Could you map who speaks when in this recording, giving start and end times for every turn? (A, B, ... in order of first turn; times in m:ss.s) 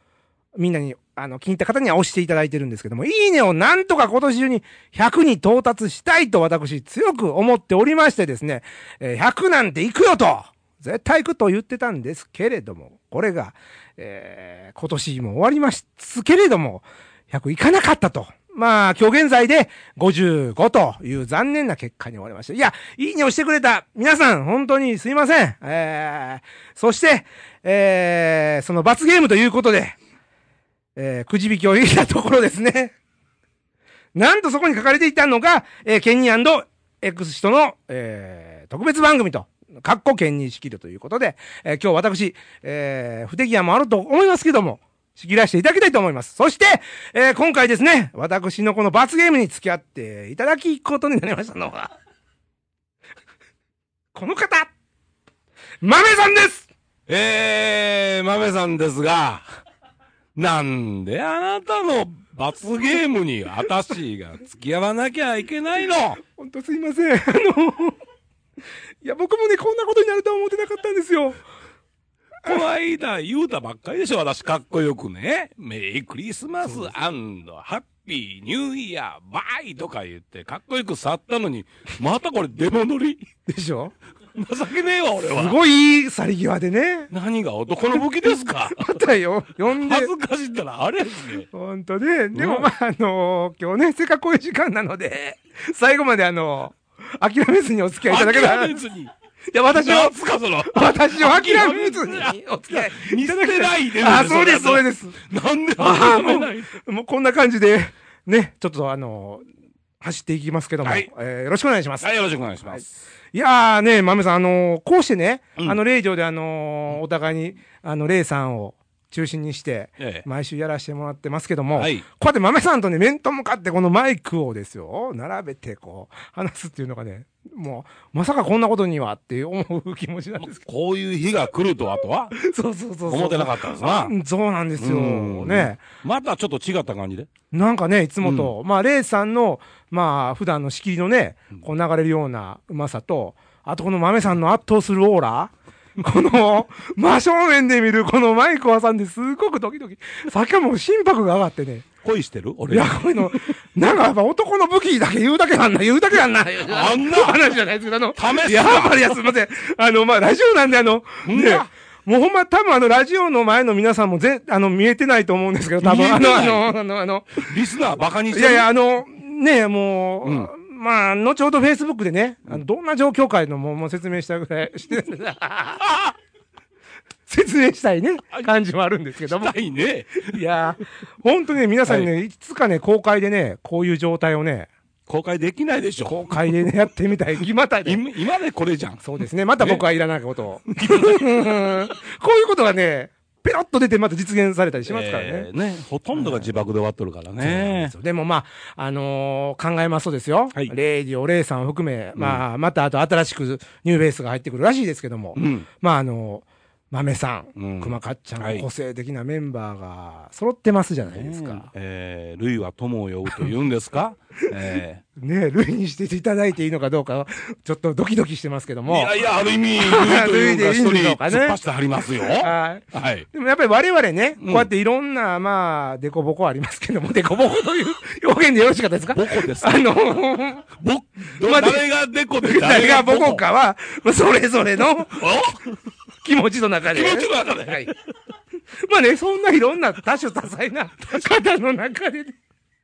0:00.6-0:30.0 A
0:31.0-0:33.0 A
0:34.1-0:51.9 A
0:54.1-0:54.7 A
0:55.8-0:56.7 A
0:57.1-0:59.4 B
1:00.4-1:06.2 B
1:06.2-1:08.0 A
1:09.0-1:11.4 A
1:12.4-1:23.2 B
1:16.6-1:16.9 A
1:23.5-1:23.9 A
1:24.3-1:25.6 B
1:25.2-1:27.1 A
1:27.1-1:29.0 B
1:28.6-1:30.1 A
1:29.7-1:31.5 B
1:31.5-1:38.8 A
1:32.3-1:32.7 B
1:38.0-1:39.1 B
1:39.5-1:45.2 A
1:39.7-1:46.7 B
1:45.8-1:49.4 A
1:50.0-1:52.1 A
1:50.8-1:51.1 B
1:52.0-1:53.0 B
1:52.7-2:10.6 A
2:00.0-2:00.3 B
2:01.7-2:02.0 B
2:10.4-2:12.4 B
2:12.3-2:15.8 A
2:13.1-2:14.1 B
2:14.8-2:17.3 B
2:17.5-2:31.9 A
2:18.2-2:18.5 B
2:32.0-2:33.4 B
2:32.7-2:47.5 A
2:36.7-2:37.4 B
2:38.1-2:39.1 B
2:41.2-2:41.7 B
2:45.8-2:46.7 B
2:47.4-2:48.7 B
2:48.3-2:55.9 A
2:50.2-2:50.5 B
2:55.9-2:56.1 B
2:57.3-2:59.6 A
2:59.3-3:00.4 B
3:00.1-3:04.7 A
3:01.8-3:02.1 B
3:05.1-3:06.6 B
3:06.0-3:08.0 A
3:07.8-3:09.0 B
3:09.0-3:15.5 A
3:09.6-3:09.8 B
3:10.7-3:11.5 B
3:14.9-3:17.9 B
3:16.1-3:16.5 A
3:17.4-3:31.7 A
3:22.2-3:22.4 B
3:25.4-3:25.7 B
3:27.6-3:28.7 B
3:31.1-3:35.0 B
3:34.4-3:39.1 A
3:38.9-3:43.3 B
3:39.8-3:41.6 A
3:42.1-3:50.7 A
3:44.4-3:44.7 B
3:49.1-3:49.9 B
3:50.8-3:53.4 B
3:51.4-3:51.8 A
3:52.4-3:55.3 A
3:55.2-3:55.8 B
3:56.2-3:57.9 A
3:56.9-3:57.9 B
3:58.8-4:02.4 A